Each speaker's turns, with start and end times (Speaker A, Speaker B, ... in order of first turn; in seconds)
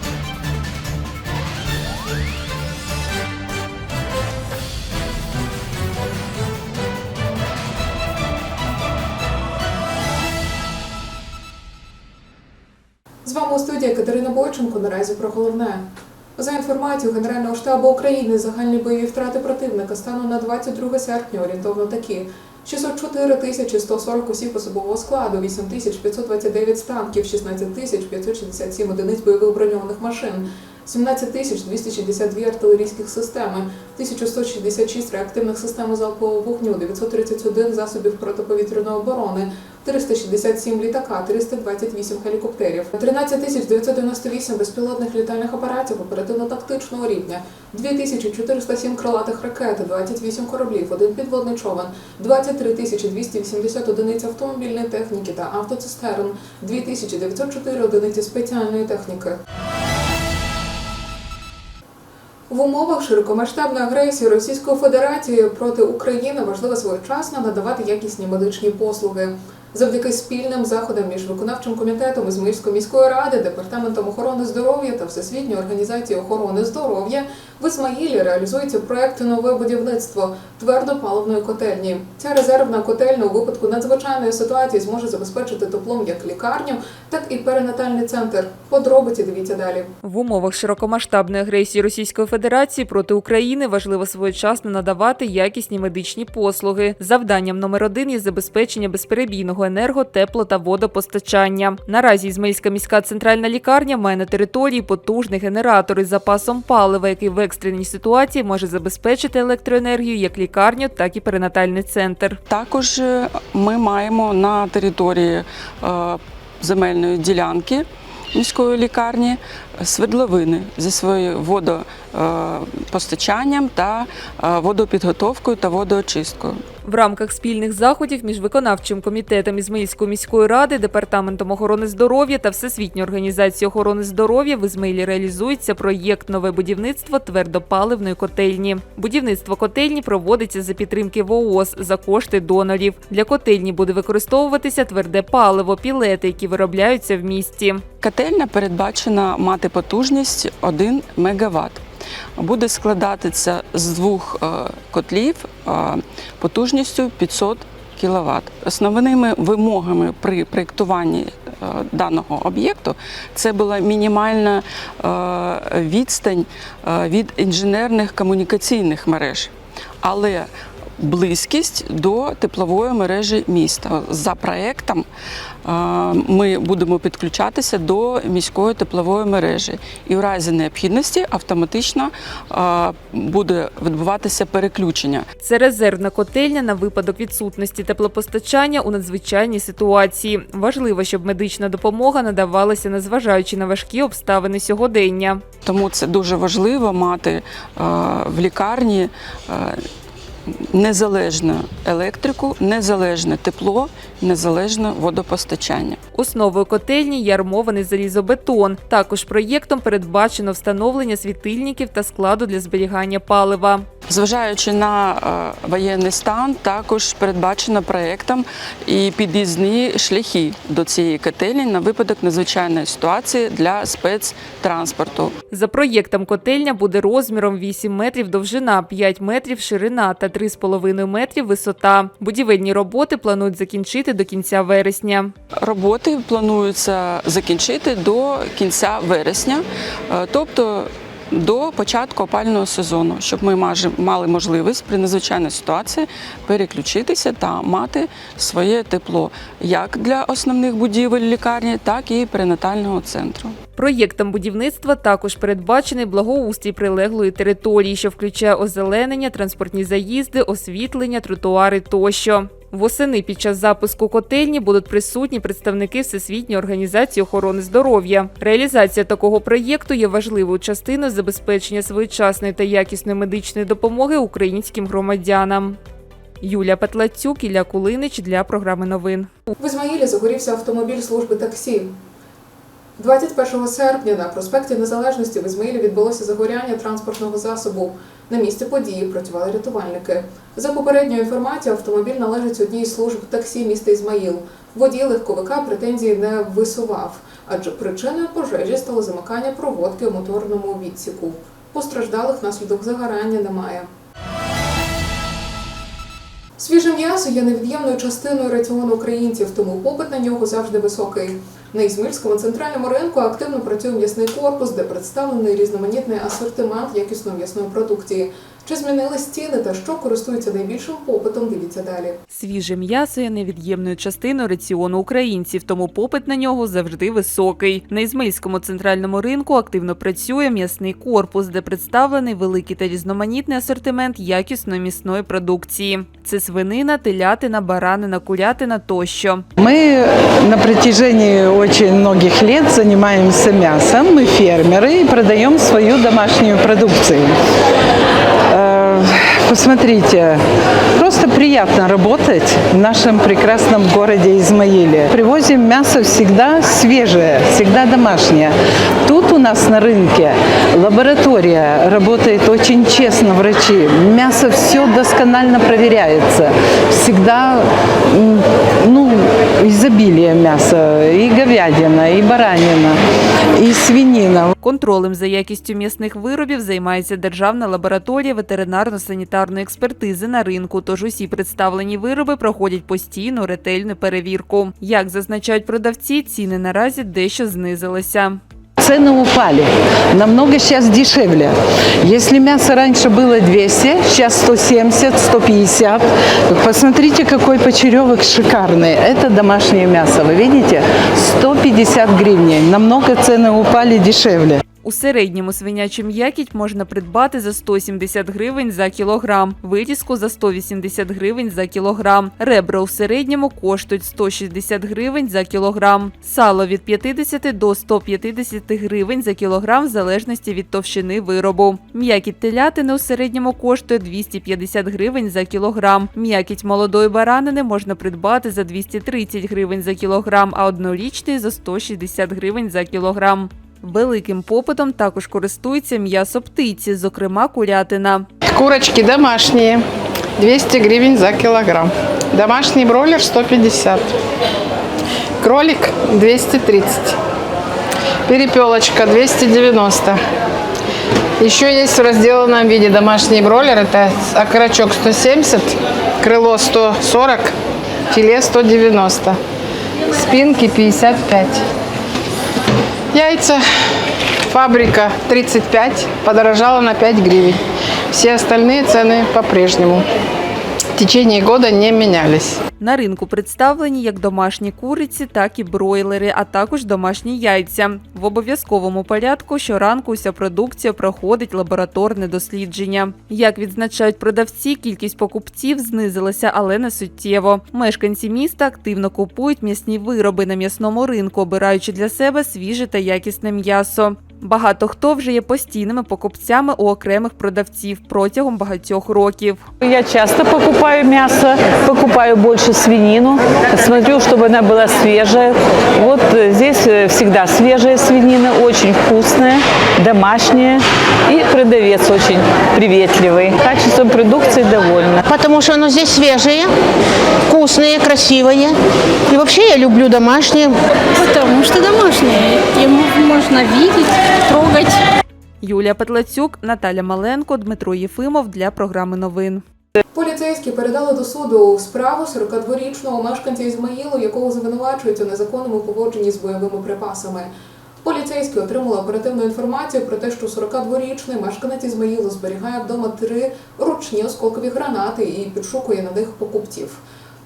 Speaker A: 13.2-59.4, 62.5-89.9, 279.6-281.9, 283.0-303.9, 306.6-322.2, 530.1-537.5, 538.0-547.0
Speaker B: 90.0-112.4, 126.8-147.8, 185.4-195.4, 206.1-213.8, 225.5-235.3, 253.8-275.8, 276.4-279.3, 322.3-339.4, 374.6-388.4, 404.8-438.2, 472.8-499.6, 525.6-529.6
Speaker C: 112.5-126.6, 148.0-151.8, 152.4-170.5, 171.0-175.1, 175.6-185.2, 195.6-199.8, 200.7-206.0, 214.1-225.3, 235.6-253.6
Speaker D: 339.6-347.3, 348.5-350.4, 350.9-373.0, 373.5-374.5, 388.8-404.6
Speaker E: 438.5-439.9, 440.4-444.1, 445.4-447.1, 448.3-450.2, 451.4-457.5, 458.1-459.4, 460.1-461.6, 463.1-463.6, 464.4-470.1, 470.9-472.6
Speaker F: 499.8-515.2
Speaker G: 515.3-516.7, 517.5-518.7, 519.3-520.7
Speaker H: 521.1-525.0